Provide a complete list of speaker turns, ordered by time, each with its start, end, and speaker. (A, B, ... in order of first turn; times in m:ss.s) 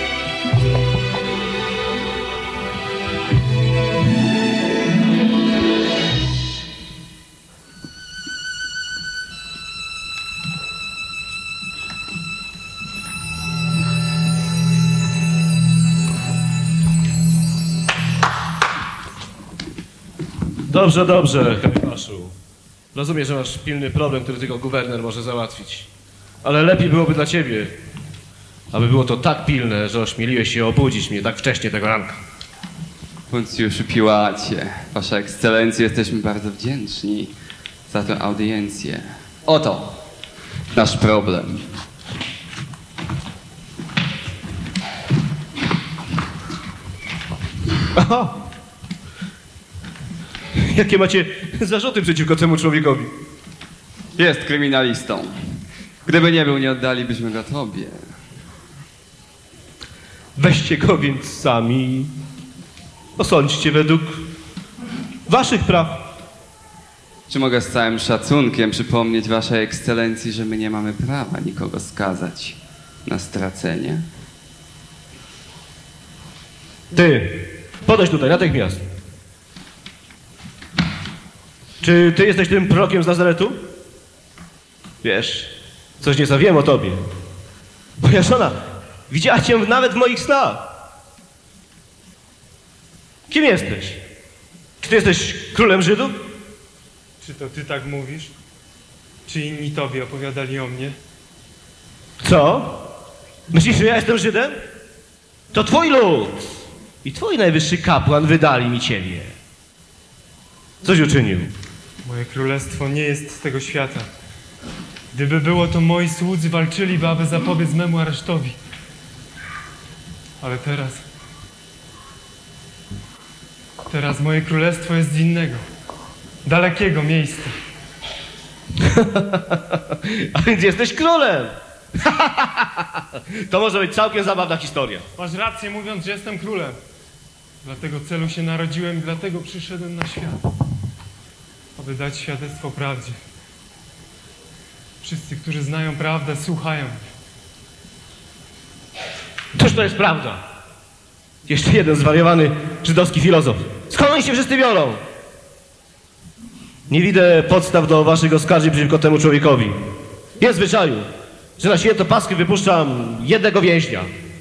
0:20.7-0:22.3 A
0:22.9-0:25.9 A
0:26.4-0:27.8 A
0:28.7-0:32.2 A
0:33.3-0:37.3 B
0:37.9-0:40.0 B
0:40.7-0:41.7 B
0:47.9-0:48.4 A
0:50.6-0:53.1 A
0:54.1-0:55.4 B
0:56.0-0:58.0 B
1:00.4-1:02.1 A
1:03.2-1:04.3 A
1:05.3-1:06.1 A
1:07.3-1:14.0 B
1:16.9-1:18.8 A
1:21.8-1:23.7 A
1:25.0-1:27.0 A
1:28.0-1:30.7 A
1:33.3-1:34.0 A
1:34.8-1:36.2 A
1:37.2-1:38.3 C
1:39.2-1:41.0 C
1:42.2-1:42.9 A
1:43.5-1:44.6 A
1:45.5-1:46.5 A
1:47.0-1:49.4 A
1:50.8-1:51.5 A
1:52.0-1:54.1 C
1:55.1-1:58.6 C
2:00.4-2:01.0 C
2:03.9-2:05.6 C
2:06.4-2:07.5 C
2:08.8-2:15.1 A
2:15.2-2:16.8 C
2:17.6-2:20.4 C
2:21.8-2:23.2 C
2:25.0-2:27.0 C
2:29.5-2:30.4 A
2:31.4-2:35.0 A
2:36.9-2:39.8 A
2:40.4-2:44.1 A